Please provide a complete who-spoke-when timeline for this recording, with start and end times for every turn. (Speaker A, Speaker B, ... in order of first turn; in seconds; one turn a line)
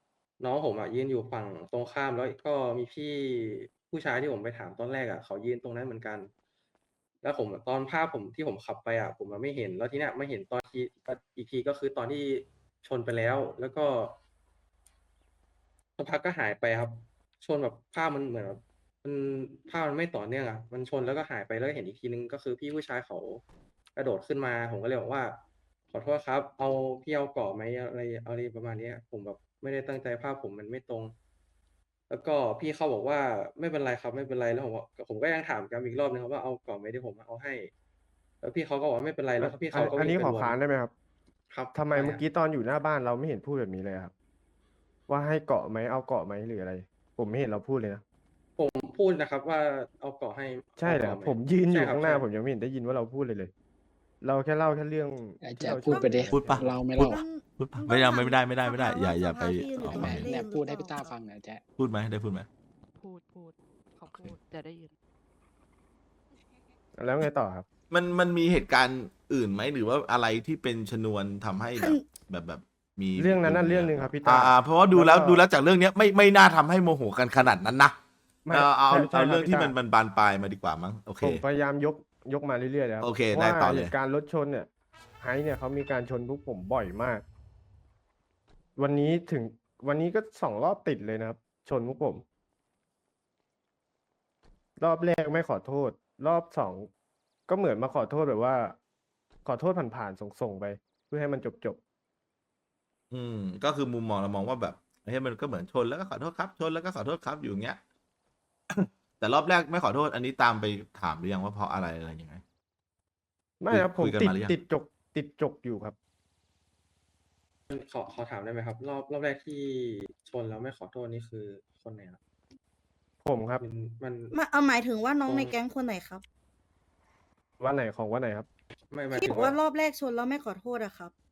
Speaker A: 0.4-6.3
Speaker A: 7.2-14.2
Speaker A: 16.0-23.4
Speaker A: 24.0-25.4
Speaker A: 25.9-31.1
Speaker A: 32.1-37.7
Speaker A: 38.4-40.6
Speaker B: 39.4-40.9
Speaker A: 41.5-42.2
Speaker B: 41.7-44.1
Speaker B: 45.1-48.0
Speaker A: 48.6-52.2
Speaker B: 50.8-53.5
Speaker B: 54.2-56.7
Speaker C: 55.4-57.2
Speaker D: 55.8-56.4
Speaker E: 56.3-60.3
Speaker D: 57.0-61.1
Speaker C: 59.9-61.6
Speaker E: 61.8-62.5
Speaker F: 63.0-64.9
Speaker B: 67.0-67.7
Speaker E: 67.9-78.0
Speaker D: 71.8-72.1
Speaker B: 73.2-75.4
Speaker B: 78.5-79.7
Speaker E: 78.5-81.4
Speaker B: 81.2-84.7
Speaker E: 83.0-83.9
Speaker B: 85.2-87.2
Speaker B: 88.8-92.2
Speaker B: 94.8-96.9
Speaker B: 97.5-98.8
Speaker B: 99.5-101.8
Speaker E: 103.1-107.8
Speaker E: 108.7-112.4
Speaker B: 113.6-116.0
Speaker E: 113.7-114.5
Speaker A: 117.7-122.2
Speaker B: 123.2-123.6
Speaker A: 123.6-124.3
Speaker D: 124.3-126.2
Speaker A: 125.3-125.6
Speaker B: 127.6-128.5
Speaker A: 128.9-129.6
Speaker D: 129.1-131.1